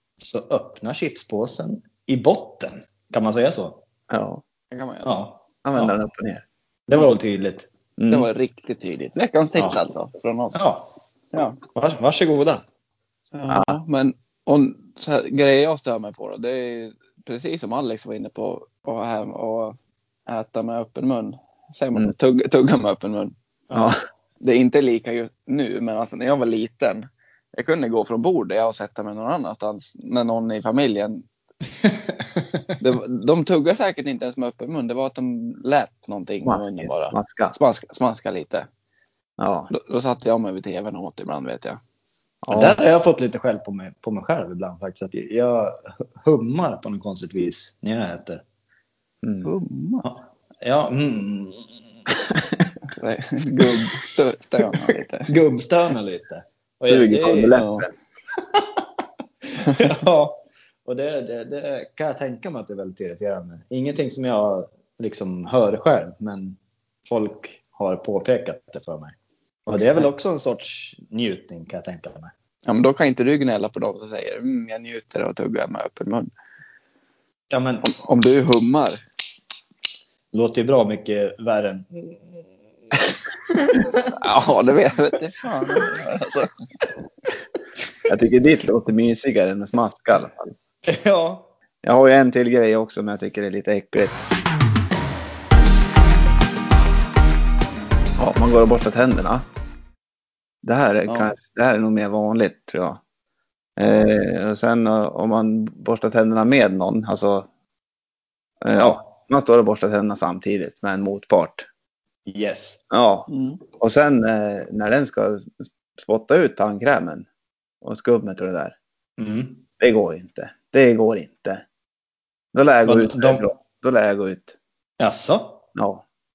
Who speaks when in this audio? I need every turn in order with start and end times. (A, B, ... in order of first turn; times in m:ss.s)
0:00.2-0:03.8 A
0:04.1-0:04.4 B
0:04.7-0:05.1 C
0:05.0-0:05.9 A
0:05.6-0:06.4 B
0:06.9-0:07.7 A
0:08.0-0:08.3 B
0:08.1-0:10.6 C
0:10.5-0:10.9 A
0:11.3-0:11.6 C
0:11.7-0:12.6 A
0:13.3-0:19.8 C
0:13.5-0:13.8 B
0:20.3-0:23.3 C
0:23.7-0:23.9 A
0:24.4-0:31.2 C
0:31.8-0:32.6 A
0:32.8-0:38.7 C
0:36.4-0:37.5 B
0:39.4-0:39.7 B
0:39.7-0:41.8 C
0:42.4-0:42.8 B
0:42.5-0:48.4 A
0:49.2-0:49.5 B
0:49.4-0:50.0 C
0:50.0-0:51.7 A
0:52.9-0:55.3 C
0:54.9-0:57.6 A
0:56.8-0:57.9 B
0:57.5-0:57.9 C
0:58.4-0:58.8 A
0:59.5-1:09.1 A
1:09.7-1:12.3 A
1:12.6-1:16.3 C
1:17.5-1:17.9 A
1:17.8-1:19.0 C
1:20.3-1:22.4 A
1:23.5-1:24.1 A
1:24.1-1:26.5 C
1:28.1-1:30.5 B
1:30.9-1:31.5 A
1:31.8-1:34.2 B
1:38.2-1:39.4 B
1:40.6-1:43.0 B
1:43.8-1:47.5 B
1:48.6-1:51.6 B
1:48.8-1:49.0 A
1:52.3-1:52.8 A
1:52.9-1:57.2 B
1:53.3-1:53.6 C
1:57.8-1:58.7 B
1:59.2-1:59.6 A
1:59.8-2:01.6 B
2:02.5-2:04.5 B
2:02.8-2:03.5 A
2:05.0-2:05.6 A
2:05.7-2:06.0 B